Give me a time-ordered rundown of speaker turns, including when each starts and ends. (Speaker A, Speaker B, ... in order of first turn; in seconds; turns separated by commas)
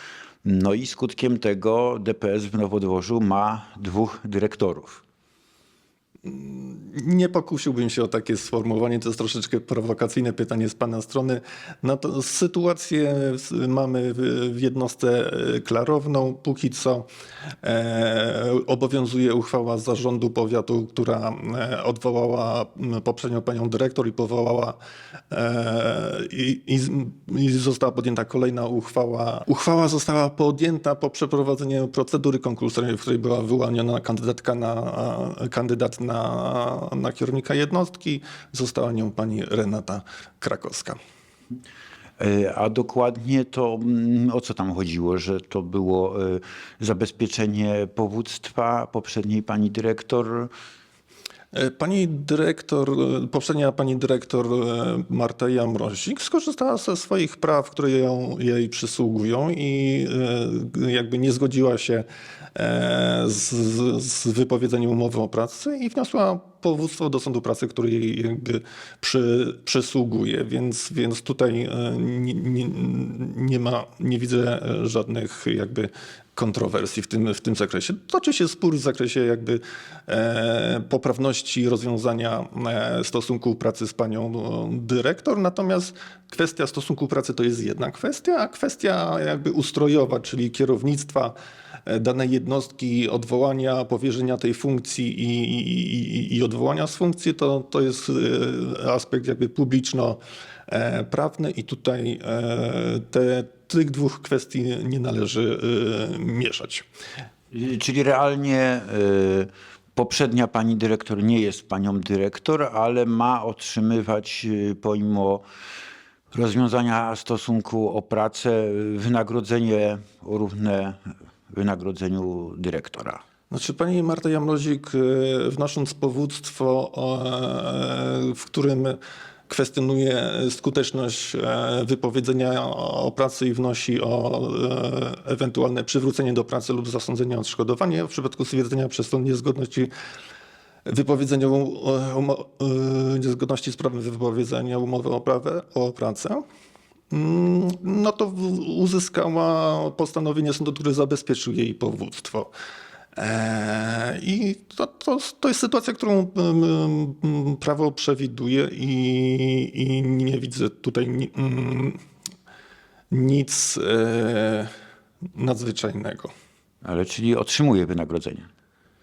Speaker A: 0.4-5.0, Speaker B: 6.2-17.1, Speaker B: 17.6-24.8, Speaker B: 25.3-41.0, Speaker A: 42.2-50.5, Speaker B: 51.5-91.3, Speaker B: 91.8-106.8, Speaker A: 107.5-115.4, Speaker A: 116.3-121.0, Speaker A: 121.5-123.2, Speaker B: 123.5-129.0, Speaker B: 129.5-139.9, Speaker B: 140.8-146.4, Speaker B: 147.1-152.5, Speaker B: 153.1-162.0, Speaker B: 163.1-164.7, Speaker B: 165.3-166.3, Speaker A: 166.8-168.5